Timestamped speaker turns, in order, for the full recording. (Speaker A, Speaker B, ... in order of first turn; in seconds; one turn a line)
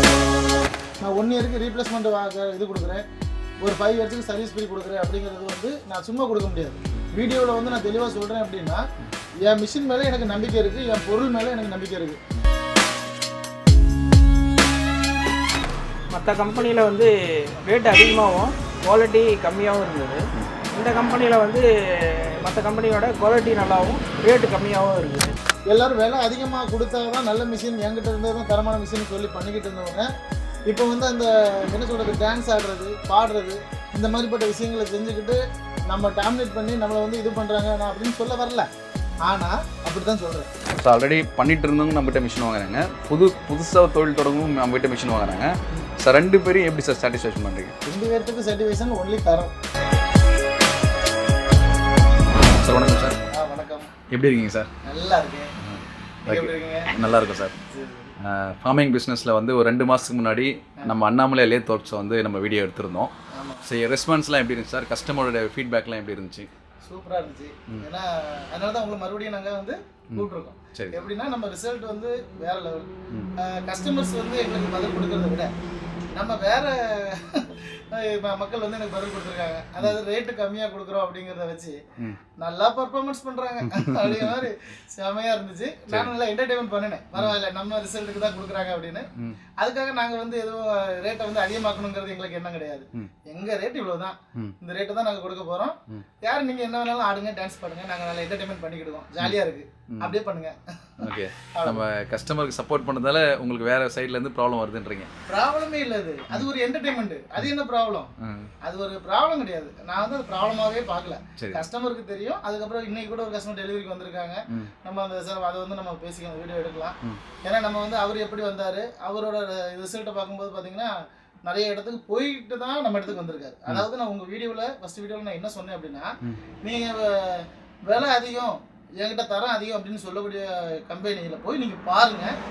Speaker A: 1.0-3.0
Speaker A: 3.6-8.8
Speaker A: 9.4-12.2
Speaker B: 16.1-20.2
Speaker B: 20.7-25.3
Speaker A: 25.7-30.1
Speaker A: 30.7-38.7
Speaker A: 39.2-40.5
Speaker C: 40.8-47.7
Speaker A: 47.9-49.5
Speaker C: 52.6-53.2
Speaker A: 53.3-53.9
Speaker C: 54.1-54.7
Speaker A: 54.8-55.5
Speaker C: 55.6-57.5
Speaker A: 56.2-56.9
Speaker A: 57.7-58.1
Speaker C: 58.2-63.1
Speaker A: 63.3-63.6
Speaker C: 63.6-66.5
Speaker A: 66.8-75.5
Speaker C: 70.1-71.0
Speaker A: 76.1-81.8
Speaker A: 82.4-89.1
Speaker C: 83.6-84.5
Speaker A: 89.6-101.8
Speaker C: 101.0-105.1
Speaker A: 105.3-108.1
Speaker C: 108.2-108.5
Speaker A: 108.6-120.9
Speaker C: 111.4-111.6
Speaker A: 121.5-132.3